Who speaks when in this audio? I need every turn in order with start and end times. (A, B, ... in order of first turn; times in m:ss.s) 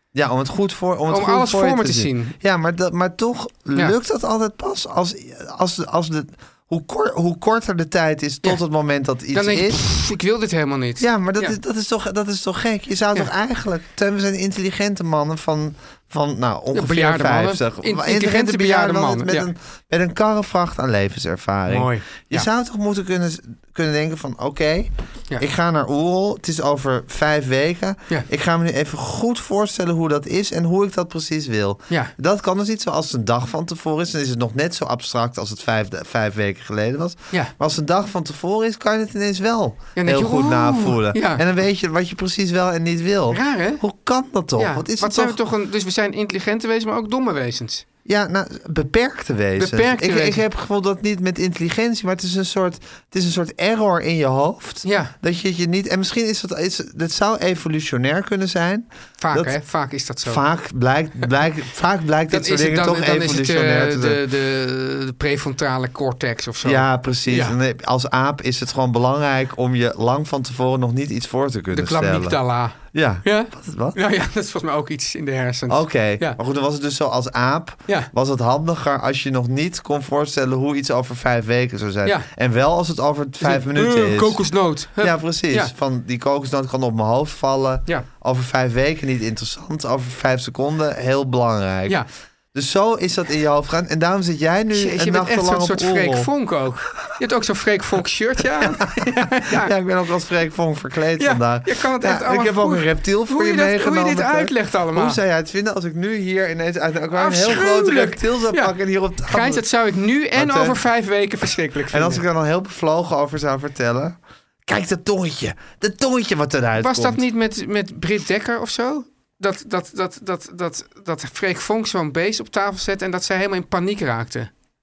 0:00.1-0:09.8 A
0:01.1-0:02.3 B
0:09.3-0:11.6 B
0:11.0-0:45.4 A
0:16.7-0:19.5 B
0:21.7-0:22.5 B
0:40.0-0:41.4 B
0:43.3-0:43.8 B
0:44.6-0:47.8 B
0:48.0-0:59.6 A
0:49.6-0:50.4 B
0:54.8-0:55.1 B
0:59.2-1:00.4 B
1:00.2-1:04.2 A
1:02.3-1:07.6 B
1:06.6-1:12.4 A
1:11.7-1:16.4 B
1:12.9-1:14.0 A
1:15.7-1:24.4 A
1:23.4-1:25.7 B
1:25.0-1:32.0 A
1:32.5-1:36.3 A
1:34.7-1:39.7 B
1:38.6-1:49.6 A
1:41.2-1:45.2 B
1:47.1-1:48.7 B
1:49.2-1:52.2 B
1:50.4-1:50.8 A
1:51.9-1:57.2 A
1:56.8-2:04.5 B